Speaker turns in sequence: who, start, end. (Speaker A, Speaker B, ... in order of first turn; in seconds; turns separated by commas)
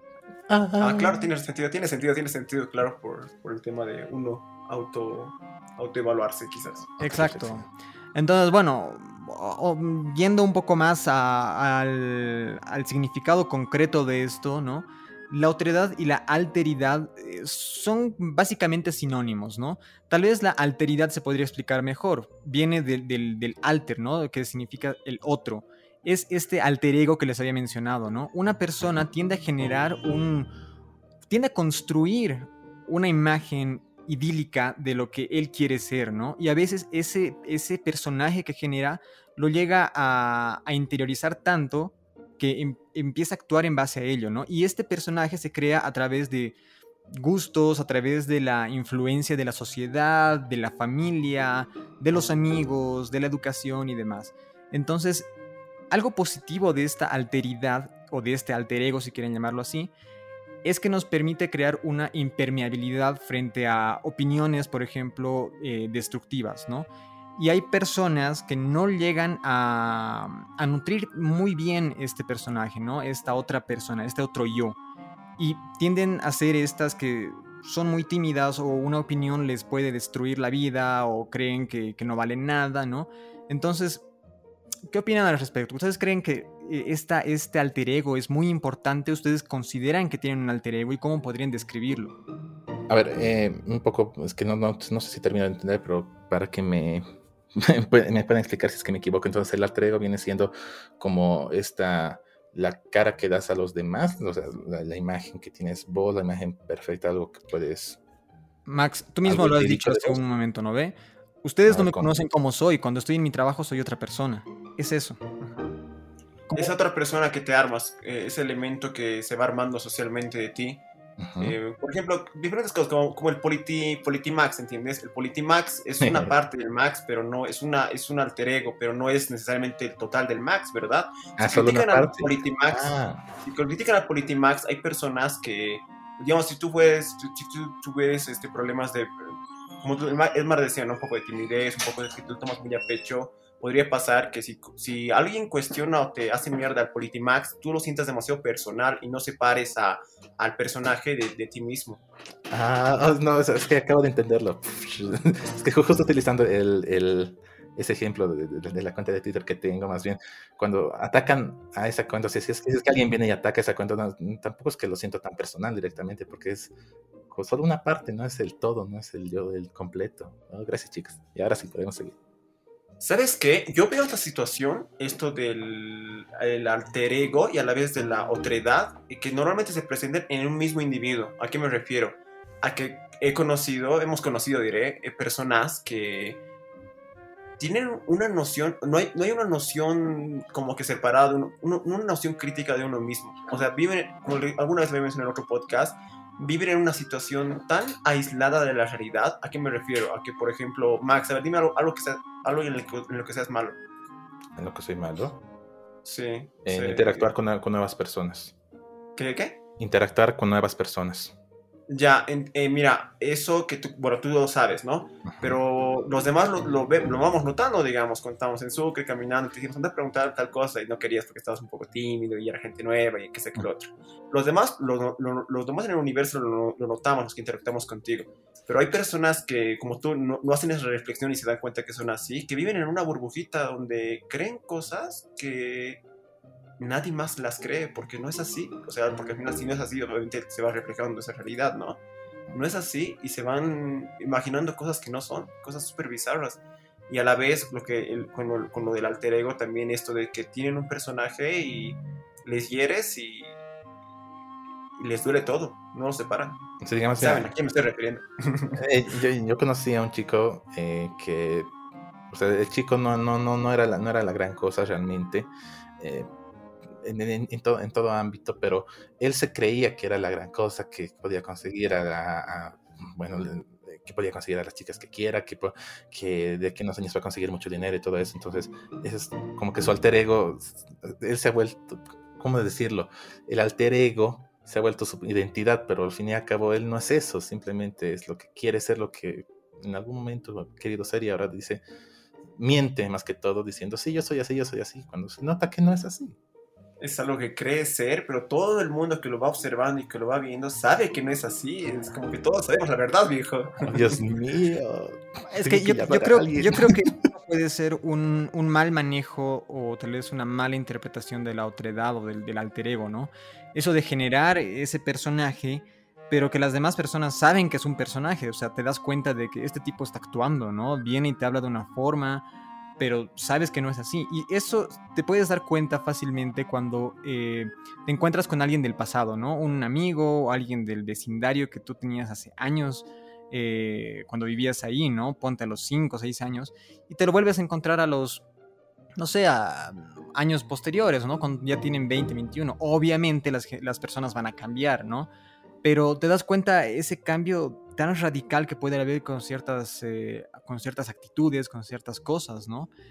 Speaker A: 0.5-1.3, Speaker B: 0.8-6.9, Speaker A: 7.0-7.7, Speaker C: 7.0-30.5, Speaker C: 31.3-46.5, Speaker C: 47.1-55.3, Speaker C: 55.9-59.9, Speaker C: 60.6-74.8, Speaker C: 75.4-84.0, Speaker C: 84.9-92.1, Speaker A: 92.9-97.0, Speaker A: 97.5-108.0, Speaker C: 108.7-115.2, Speaker A: 109.2-110.2, Speaker A: 111.7-112.2, Speaker B: 115.4-115.7, Speaker B: 116.5-120.8, Speaker A: 121.2-121.6, Speaker B: 121.4-152.0, Speaker A: 126.0-126.3, Speaker A: 131.4-133.2, Speaker A: 152.5-166.7, Speaker A: 167.3-172.2, Speaker B: 173.0-186.4, Speaker B: 187.6-203.8, Speaker A: 204.6-205.4, Speaker B: 206.0-207.3, Speaker A: 206.6-208.5, Speaker B: 209.2-209.6, Speaker A: 209.8-211.3, Speaker B: 211.9-236.0, Speaker A: 215.3-215.6, Speaker B: 236.8-253.6, Speaker B: 255.0-256.6, Speaker A: 256.8-257.5, Speaker B: 257.2-258.8, Speaker A: 258.7-261.7, Speaker A: 262.3-266.3, Speaker A: 266.9-291.8, Speaker A: 292.6-296.4, Speaker B: 297.0-304.2, Speaker A: 303.8-307.1, Speaker C: 305.5-322.4, Speaker C: 323.0-338.4, Speaker C: 339.2-345.3, Speaker C: 345.8-352.9